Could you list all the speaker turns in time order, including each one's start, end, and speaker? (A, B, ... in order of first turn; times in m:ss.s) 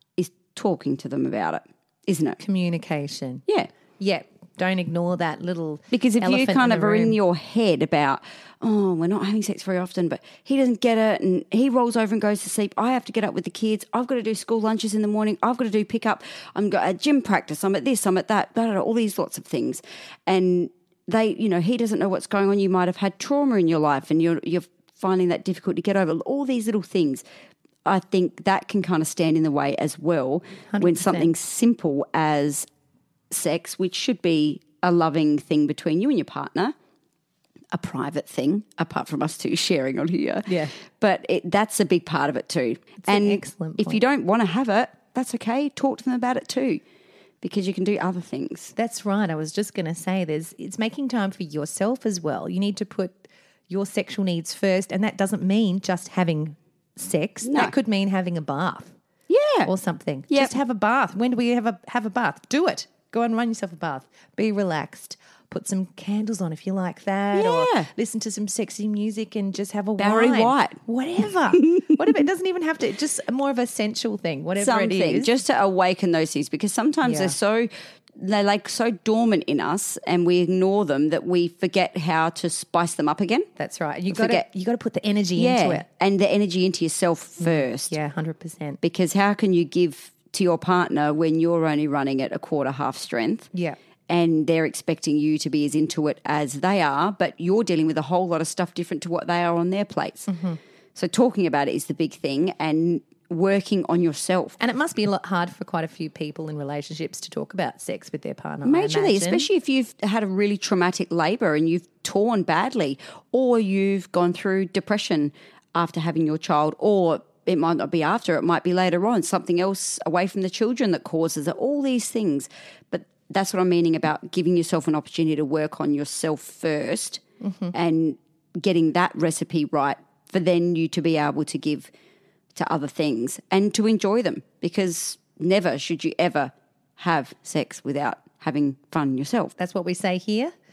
0:00.2-0:02.4 A
0:02.4-0:03.4 B
0:04.0-0:07.2 B
0:05.9-0:27.2 A
0:27.8-0:32.6 A
0:30.7-0:31.3 B
0:33.3-0:36.7 A
0:37.7-0:46.8 A
0:40.5-0:40.7 B
0:43.0-0:44.0 B
0:47.4-0:48.7 A
0:48.8-0:58.9 B
0:57.4-0:57.7 A
0:59.3-0:59.7 A
0:59.6-1:15.3 B
1:07.3-1:07.9 A
1:10.0-1:10.8 A
1:11.6-1:11.9 A
1:14.6-1:23.5 A
1:17.0-1:17.3 B
1:23.6-1:25.8 B
1:24.1-1:24.4 A
1:25.4-1:28.0 A
1:27.4-1:28.8 B
1:28.8-1:33.5 A
1:34.1-1:40.3 A
1:40.3-1:40.6 B
1:41.0-1:44.6 A
1:44.6-1:49.5 B
1:48.6-2:07.2 A
2:07.4-2:07.7 B
2:07.7-2:11.9 A
2:12.5-2:19.5 A
2:19.6-2:20.5 B